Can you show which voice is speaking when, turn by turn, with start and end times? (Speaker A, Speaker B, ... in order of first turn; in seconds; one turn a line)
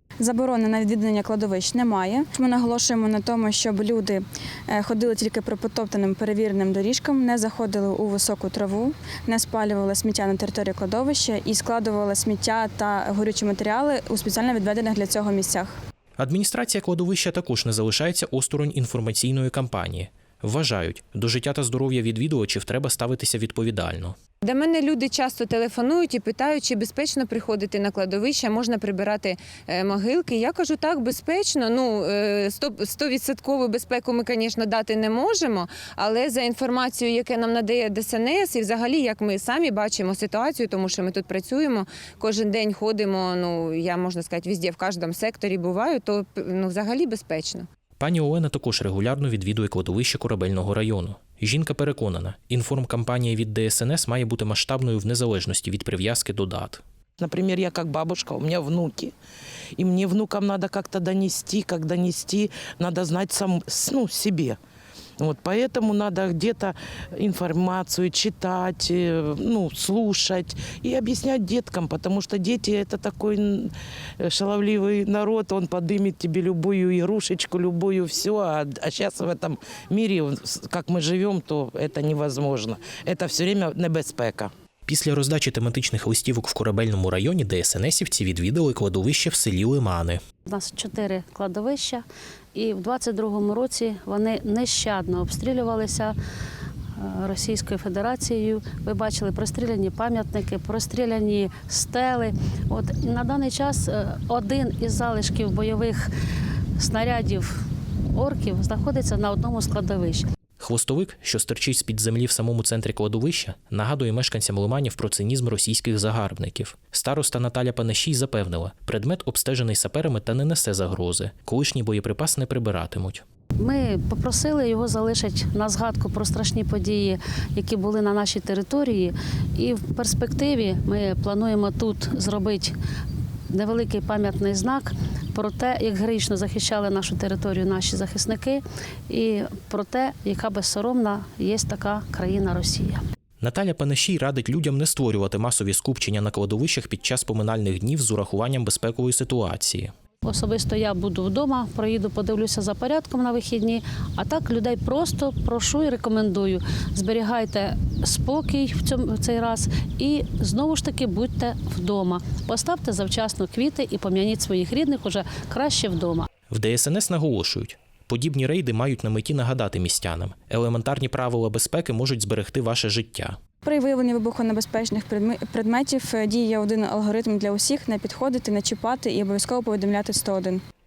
Speaker A: 0.2-15.7
Speaker B: 16.2-24.1
Speaker C: 24.4-47.6
Speaker B: 48.0-56.8
Speaker D: 57.2-59.1
Speaker D: 59.8-64.6
Speaker D: 65.2-84.5
Speaker B: 84.9-90.2
Speaker E: 90.5-96.1
Speaker E: 97.0-106.1
Speaker E: 106.8-107.5
Speaker E: 108.1-110.2
Speaker B: 110.6-123.2
Speaker E: 123.6-132.7
Speaker E: 133.5-143.0
Speaker B: 143.4-149.9
Speaker E: 150.2-166.3
Speaker B: 166.5-173.4
Speaker A: 173.6-180.6